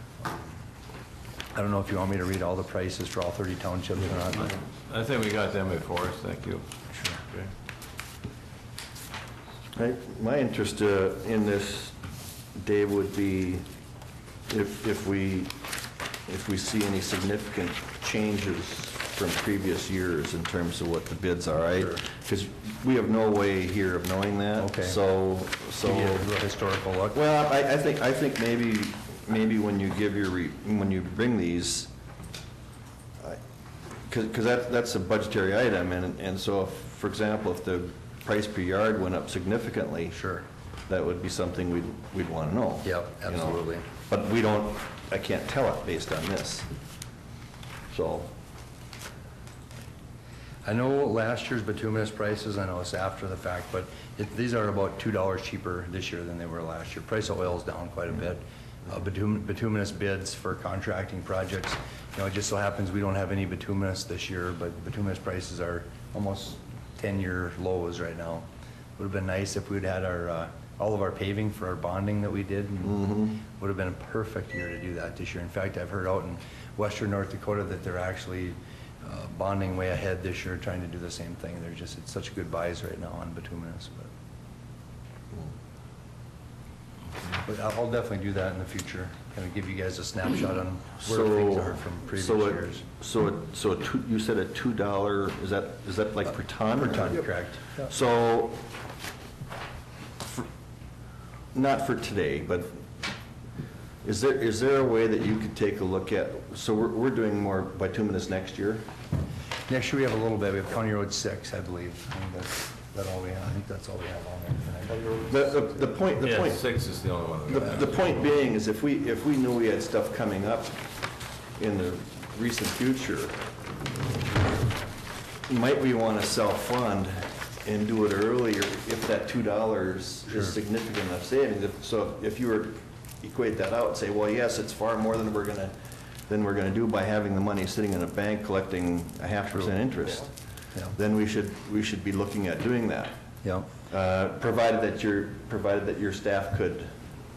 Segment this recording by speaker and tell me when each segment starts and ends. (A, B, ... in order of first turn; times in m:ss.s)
0:01.5-0:04.5 A
0:04.4-0:06.6 B
0:06.9-0:07.2 A
0:09.7-0:12.0 C
0:12.5-0:13.6 C
0:14.5-0:15.6 C
0:16.2-0:26.3 C
0:24.6-0:25.0 A
0:25.8-0:27.2 A
0:27.1-0:31.9 C
0:34.1-0:40.2 C
0:40.1-0:40.4 A
0:40.9-0:46.7 C
0:42.8-0:43.9 A
0:47.9-0:48.3 C
0:50.6-1:08.4 A
1:09.0-1:24.1 A
1:12.9-1:13.4 C
1:27.3-1:32.8 A
1:31.0-1:38.6 C
1:36.7-1:37.9 A
1:40.2-1:40.5 C
1:41.5-1:42.8 C
1:44.0-1:48.9 C
1:49.7-1:55.3 A
1:55.3-1:56.6 C
1:56.2-1:58.0 B
1:57.5-2:00.8 C
2:01.6-2:03.4 C
2:05.5-2:15.7 C
2:10.3-2:10.6 A
2:16.3-2:20.3 C
2:20.9-2:23.1 C
2:23.4-2:23.7 A
2:23.8-2:26.9 C